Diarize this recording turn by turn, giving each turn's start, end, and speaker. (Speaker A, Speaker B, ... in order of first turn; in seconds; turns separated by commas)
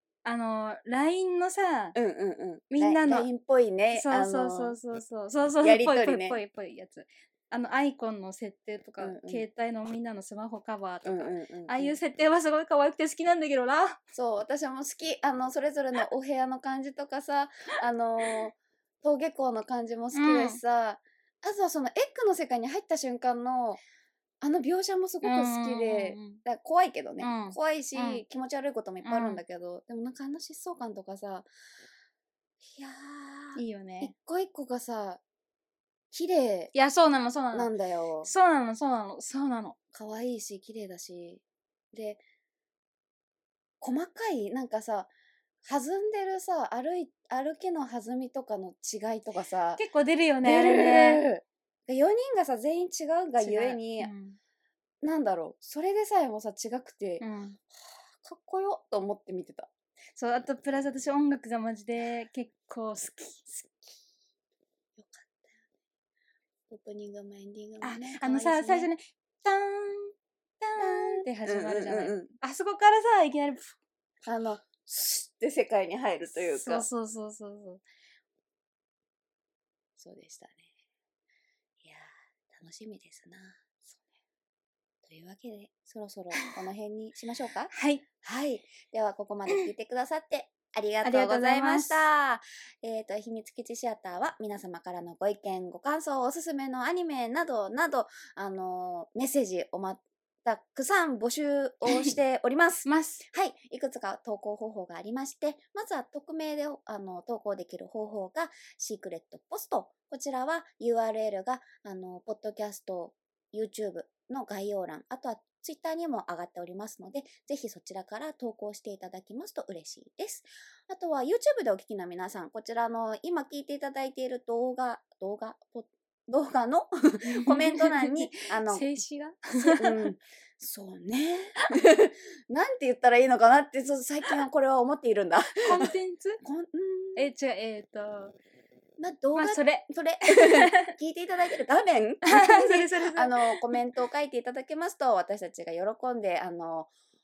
Speaker A: 0.2-2.0, Speaker B: 1.9-4.8, Speaker A: 2.7-3.3, Speaker A: 3.9-14.0, Speaker B: 5.6-6.4, Speaker B: 9.0-9.4, Speaker B: 11.0-12.0, Speaker B: 14.1-23.8, Speaker A: 20.1-20.6, Speaker B: 24.4-31.5, Speaker A: 25.2-26.4, Speaker A: 27.2-28.2, Speaker A: 29.0-29.4, Speaker B: 32.6-35.2, Speaker A: 33.5-34.1, Speaker B: 36.1-36.7, Speaker A: 36.7-37.7, Speaker B: 37.5-38.3, Speaker A: 38.2-39.8, Speaker B: 39.9-41.4, Speaker B: 41.9-42.2, Speaker B: 43.8-45.1, Speaker B: 45.6-49.8, Speaker A: 49.8-51.2, Speaker B: 50.4-54.1, Speaker A: 53.4-54.4, Speaker B: 55.0-57.3, Speaker A: 57.2-57.6, Speaker B: 57.8-59.7, Speaker A: 60.2-63.5, Speaker B: 63.5-63.8, Speaker B: 65.0-65.5, Speaker B: 66.7-68.9, Speaker A: 67.8-73.7, Speaker B: 70.8-72.3, Speaker B: 74.2-76.9, Speaker A: 76.5-77.8, Speaker B: 80.0-80.7, Speaker B: 81.8-83.6, Speaker B: 85.0-128.8, Speaker A: 87.7-88.0, Speaker A: 91.0-92.1, Speaker A: 102.8-103.2, Speaker A: 127.2-130.1, Speaker B: 129.7-137.3, Speaker A: 135.6-136.4, Speaker A: 137.2-138.3, Speaker B: 139.0-146.9, Speaker A: 139.3-140.9, Speaker A: 142.2-143.8